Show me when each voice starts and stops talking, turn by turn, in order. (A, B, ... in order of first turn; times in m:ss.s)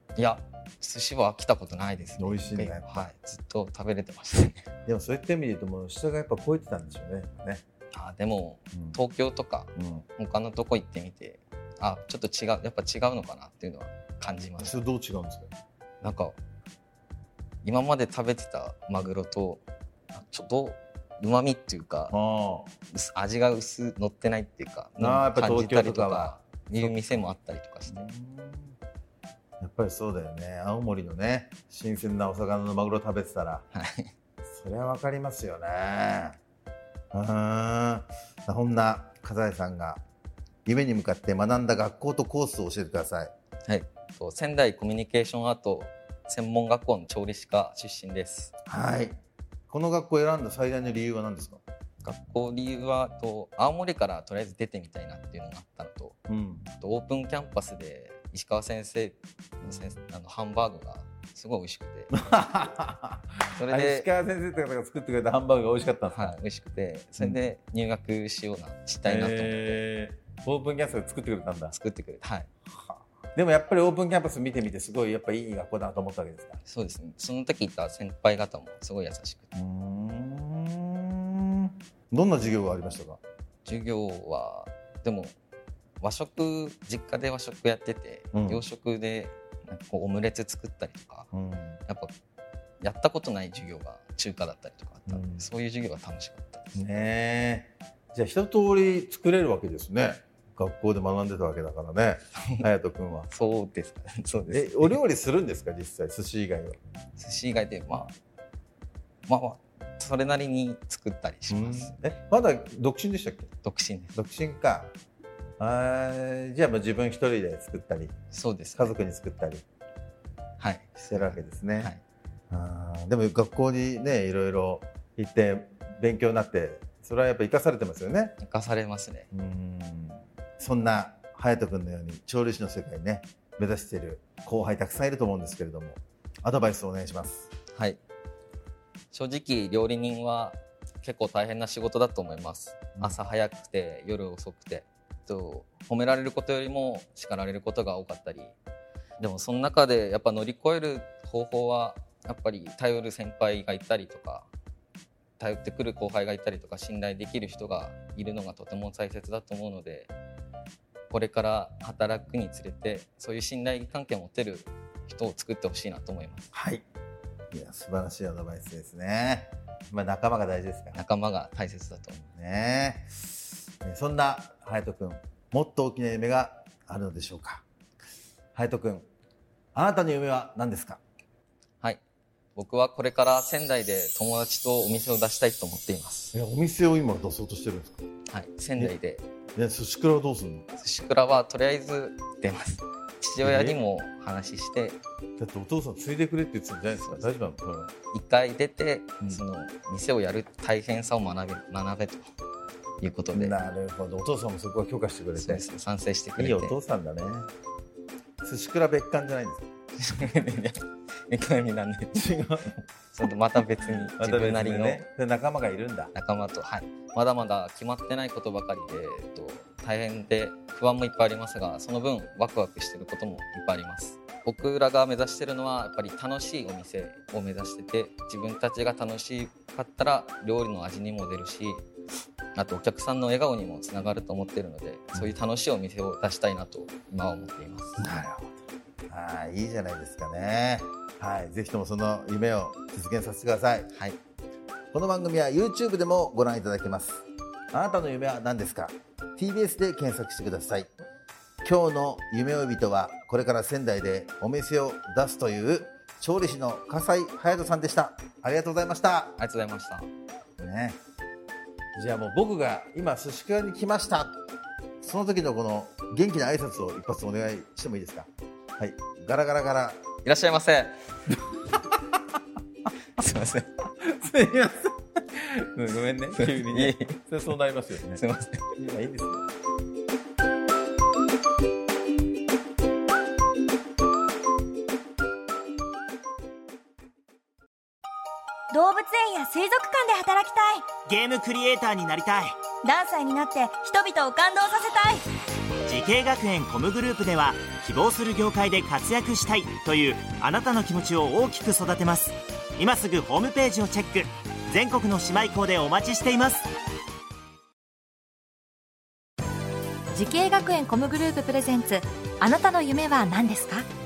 0:00.2-0:04.7 A
0:02.2-0:03.1 B
0:04.8-0:07.6 B
0:07.9-0:14.8 A
0:09.8-0:10.0 B
0:14.6-0:15.5 B
0:16.0-0:16.4 A
0:17.6-0:19.6 A
0:20.1-0:22.1 A
0:22.1-0:22.7 B
0:22.9-0:28.1 A
0:25.0-0:26.9 B
0:27.9-0:28.8 B
0:29.6-0:33.6 B
0:33.7-0:34.1 A
0:34.5-0:36.4 B
0:37.1-0:40.0 B
0:40.6-0:43.3 B
0:43.6-0:48.5 A
0:48.7-0:49.2 B
0:49.7-0:51.6 B
0:52.0-0:56.2 A
0:56.3-0:56.7 B
0:56.8-1:02.4 A
1:02.1-1:06.4 B
1:03.5-1:04.1 A
1:06.1-1:09.8 A
1:09.0-1:11.8 B
1:11.7-1:12.5 A
1:13.3-1:16.6 B
1:16.6-1:19.5 A
1:19.5-1:23.2 B
1:23.6-1:25.3 A
1:26.0-1:31.3 A
1:28.3-1:28.6 B
1:31.3-1:31.8 B
1:31.9-1:32.1 A
1:32.8-1:36.9 A
1:35.1-1:35.5 B
1:36.7-1:43.3 B
1:43.3-1:45.0 A
1:44.5-1:46.8 B
1:47.2-1:48.1 A
1:49.2-1:52.0 A
1:51.5-1:53.5 B
1:53.6-1:54.1 A
1:54.1-1:54.9 B
1:55.6-1:58.1 B
1:58.3-1:59.0 A
1:58.8-1:59.6 B
2:00.6-2:02.0 A
2:01.0-2:01.9 B
2:02.5-2:08.3 B
2:08.4-2:09.3 A
2:09.3-2:17.5 B
2:17.7-2:18.0 A
2:19.1-2:28.6 A
2:29.2-2:34.5 A
2:35.4-2:40.1 A
2:41.1-2:46.5 A
2:46.5-2:46.8 B
2:47.5-2:51.0 B
2:50.9-2:52.2 A
2:52.3-2:53.2 B
2:53.8-2:57.6 B
2:58.5-2:59.1 B
2:59.7-3:01.0 B
3:02.5-3:06.3 A
3:06.3-3:08.0 B
3:08.3-3:09.2 A
3:09.6-3:10.6 B
3:10.8-3:15.0 A
3:13.4-3:13.8 B
3:15.4-3:17.9 B
3:17.0-3:17.3 A
3:18.1-3:22.3 A
3:23.0-3:23.6 A
3:23.3-3:25.6 B
3:25.4-3:26.8 A
3:26.4-3:27.5 B
3:28.4-3:29.7 B
3:30.0-3:32.3 A
3:32.1-3:32.8 B
3:33.1-3:35.0 A
3:34.2-3:36.1 B
3:36.1-3:51.8 A
3:52.5-3:58.1 A
3:58.0-4:03.9 B
4:03.9-4:04.2 A
4:04.9-4:10.9 B
4:11.6-4:19.4 B
4:19.4-4:20.1 A
4:20.6-4:21.0 B
4:22.0-4:24.4 B
4:25.0-4:30.0 B
4:30.2-4:31.0 A
4:33.2-4:33.8 A
4:34.0-4:38.2 B
4:36.3-4:37.3 A
4:38.1-4:38.8 A
4:38.8-4:39.4 B
4:48.7-4:51.0 C
4:51.0-4:52.6 D
4:52.8-4:55.2 C
4:55.8-5:06.7 D
5:10.1-5:13.9 E